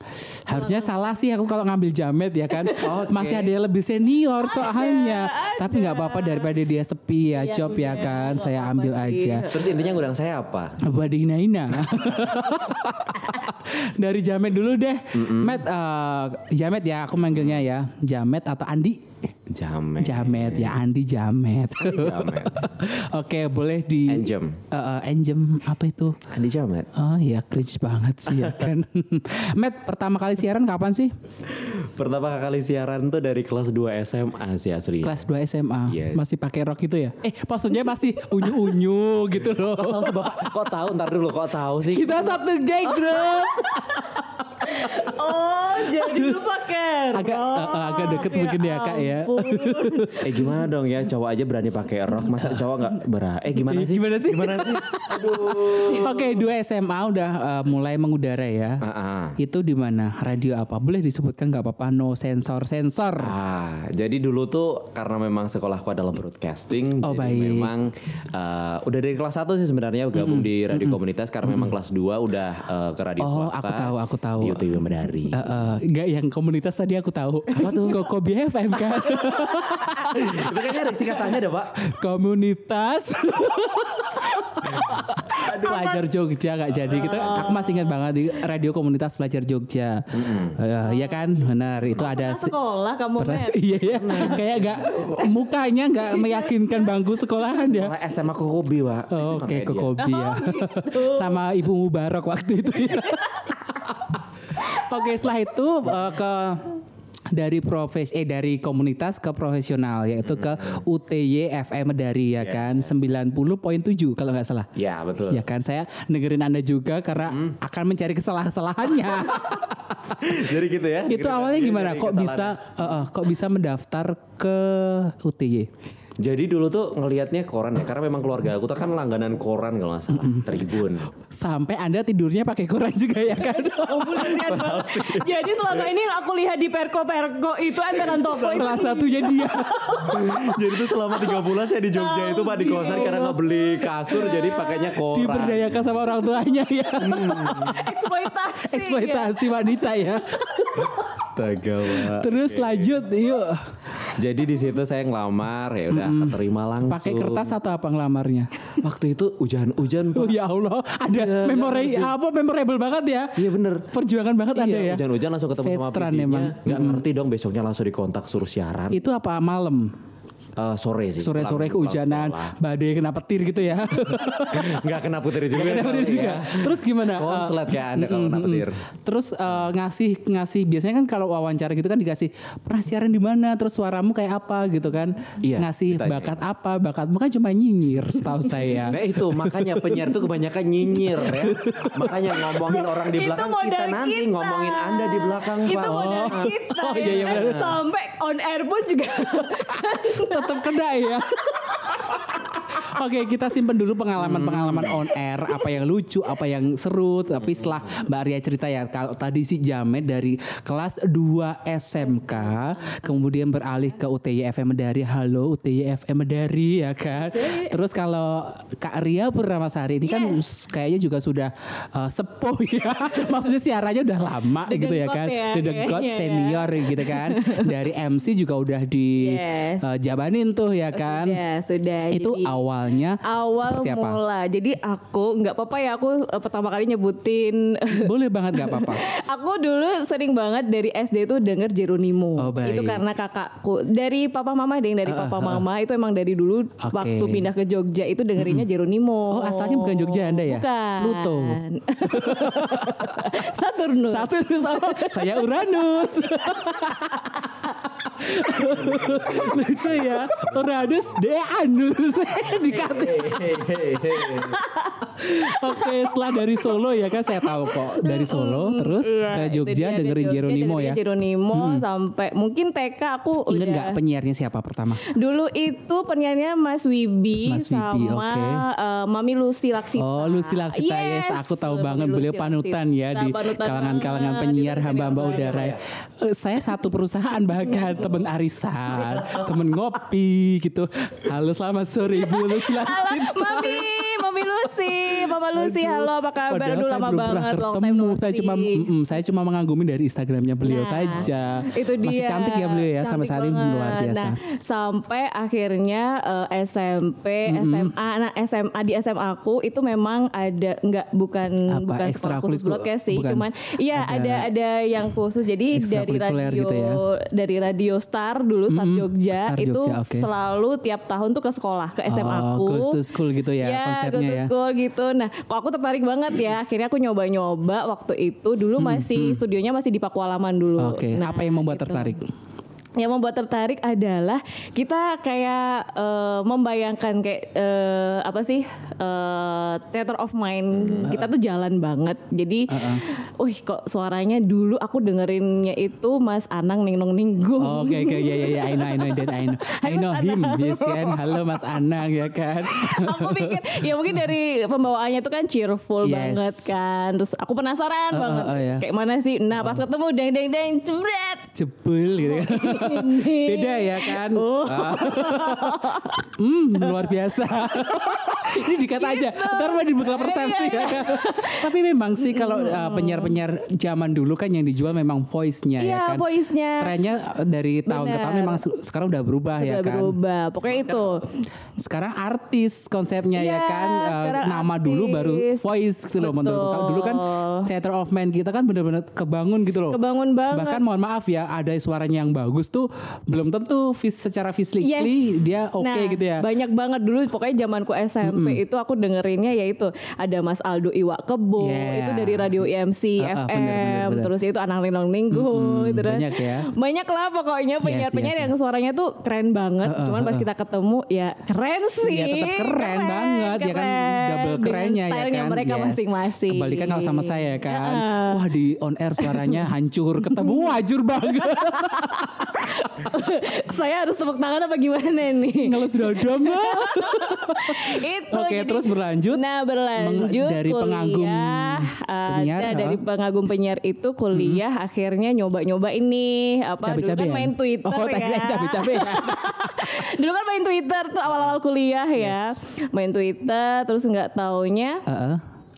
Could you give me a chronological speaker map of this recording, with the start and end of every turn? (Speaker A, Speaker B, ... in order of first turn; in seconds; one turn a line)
Speaker A: 0.5-9.5
Speaker B: 0.5-1.1
Speaker C: 2.8-3.5
Speaker B: 4.5-6.6
Speaker B: 7.3-10.0
Speaker C: 9.5-10.8
Speaker A: 10.8-19.1
Speaker C: 15.2-15.6
Speaker C: 19.5-20.7
Speaker A: 20.0-26.2
Speaker C: 21.8-22.7
Speaker C: 24.1-24.6
Speaker C: 26.3-26.9
Speaker A: 26.9-31.1
Speaker C: 31.5-35.2
Speaker A: 35.0-40.5
Speaker C: 35.9-36.2
Speaker C: 39.5-42.3
Speaker A: 41.8-45.1
Speaker B: 44.6-50.2
Speaker A: 45.8-46.4
Speaker A: 47.1-50.4
Speaker C: 50.2-56.2
Speaker A: 53.7-58.8
Speaker C: 58.8-59.4
Speaker A: 59.4-63.4
Speaker C: 63.2-75.5
Speaker A: 67.0-67.7
Speaker A: 70.1-71.7
Speaker A: 73.2-74.6
Speaker A: 75.3-80.6
Speaker C: 77.6-78.1
Speaker C: 80.1-81.8
Speaker A: 81.8-92.5
Speaker B: 85.3-86.0
Speaker B: 86.9-88.0
Speaker C: 90.1-90.6
Speaker B: 90.9-91.2
Speaker B: 92.0-94.3
Speaker A: 93.2-97.9
Speaker C: 93.8-94.8
Speaker B: 96.1-97.0
Speaker C: 97.6-99.9
Speaker A: 99.1-106.8
Speaker B: 100.0-101.4
Speaker A: 107.3-114.7
Speaker C: 110.2-110.8
Speaker C: 112.4-112.8
Speaker C: 114.8-115.4
Speaker A: 115.3-120.4
Speaker C: 117.3-117.6
Speaker C: 120.2-122.6
Speaker A: 121.1-125.7
Speaker C: 126.2-131.1
Speaker A: 130.1-130.6
Speaker A: 131.3-134.4
Speaker B: 133.6-144.9
Speaker C: 134.2-136.0
Speaker C: 138.0-138.7
Speaker A: 138.5-140.1
Speaker C: 140.1-145.8
Speaker A: 145.1-147.9
Speaker C: 147.0-147.9
Speaker B: 147.4-149.4
Speaker A: 148.6-151.1
Speaker C: 150.9-153.0
Speaker A: 151.9-153.8
Speaker C: 154.1-157.5
Speaker A: 155.9-158.5
Speaker C: 158.8-160.4
Speaker A: 160.1-165.0
Speaker C: 161.1-162.1
Speaker C: 163.4-163.9
Speaker C: 164.6-169.0
Speaker A: 165.6-167.0
Speaker A: 168.9-169.9
Speaker C: 170.6-172.6
Speaker A: 171.2-174.8
Speaker C: 174.5-178.8
Speaker A: 175.5-190.0
Speaker C: 185.4-186.4
Speaker C: 188.9-197.8
Speaker A: 190.9-192.8
Speaker B: 192.8-200.6
Speaker A: 195.8-197.7
Speaker A: 199.4-231.4
Speaker C: 204.2-205.0
Speaker B: 212.0-213.1
Speaker B: 217.2-217.8
Speaker B: 220.1-220.4
Speaker B: 224.7-227.7
Speaker B: 229.2-229.9
Speaker B: 230.9-232.6
Speaker A: 232.1-234.2
Speaker B: 233.2-257.7
Speaker A: 237.9-239.1
Speaker A: 242.4-243.0
Speaker A: 245.1-245.7
Speaker A: 246.8-247.5
Speaker A: 248.4-248.7
Speaker A: 249.3-253.4
Speaker A: 254.1-263.5
Speaker C: 258.6-260.9
Speaker C: 262.7-264.6
Speaker B: 264.2-274.0
Speaker A: 265.2-271.0
Speaker A: 271.5-271.8
Speaker A: 273.5-275.0
Speaker B: 275.1-285.8
Speaker A: 277.4-278.6
Speaker A: 280.0-294.2
Speaker C: 285.1-285.8
Speaker B: 287.6-288.1
Speaker C: 288.9-289.5
Speaker B: 292.1-298.9
Speaker A: 295.1-304.4
Speaker B: 300.6-323.0
Speaker A: 307.5-307.9
Speaker A: 311.7-314.5
Speaker A: 315.7-317.0
Speaker A: 318.7-320.3
Speaker A: 322.1-324.5
Speaker B: 323.6-332.2
Speaker A: 328.8-329.4
Speaker A: 330.8-332.2
Speaker B: 333.0-351.7
Speaker C: 340.8-341.0
Speaker A: 342.7-343.0
Speaker A: 347.6-354.3
Speaker B: 352.6-361.5
Speaker A: 356.0-356.7
Speaker A: 358.1-358.9
Speaker A: 359.6-359.8
Speaker A: 361.5-376.2
Speaker B: 362.2-366.2
Speaker B: 366.8-367.1
Speaker B: 367.6-373.4
Speaker B: 375.8-376.9
Speaker A: 376.8-380.1
Speaker B: 377.9-378.6
Speaker B: 379.6-381.4
Speaker A: 381.8-390.0
Speaker B: 383.3-385.7
Speaker B: 386.2-387.7
Speaker B: 389.9-390.8
Speaker A: 390.5-396.4
Speaker B: 394.8-395.2
Speaker B: 395.8-418.5
Speaker A: 398.2-398.6
Speaker A: 401.6-402.6
Speaker A: 403.2-404.3
Speaker A: 405.3-406.7
Speaker A: 407.8-408.5
Speaker A: 409.9-410.5
Speaker A: 412.0-422.9
Speaker B: 419.2-419.6
Speaker B: 420.2-420.7
Speaker B: 421.2-445.0
Speaker A: 425.6-429.4
Speaker A: 430.0-433.0
Speaker A: 434.3-434.6
Speaker A: 436.8-440.1
Speaker A: 442.2-442.5
Speaker A: 445.1-445.4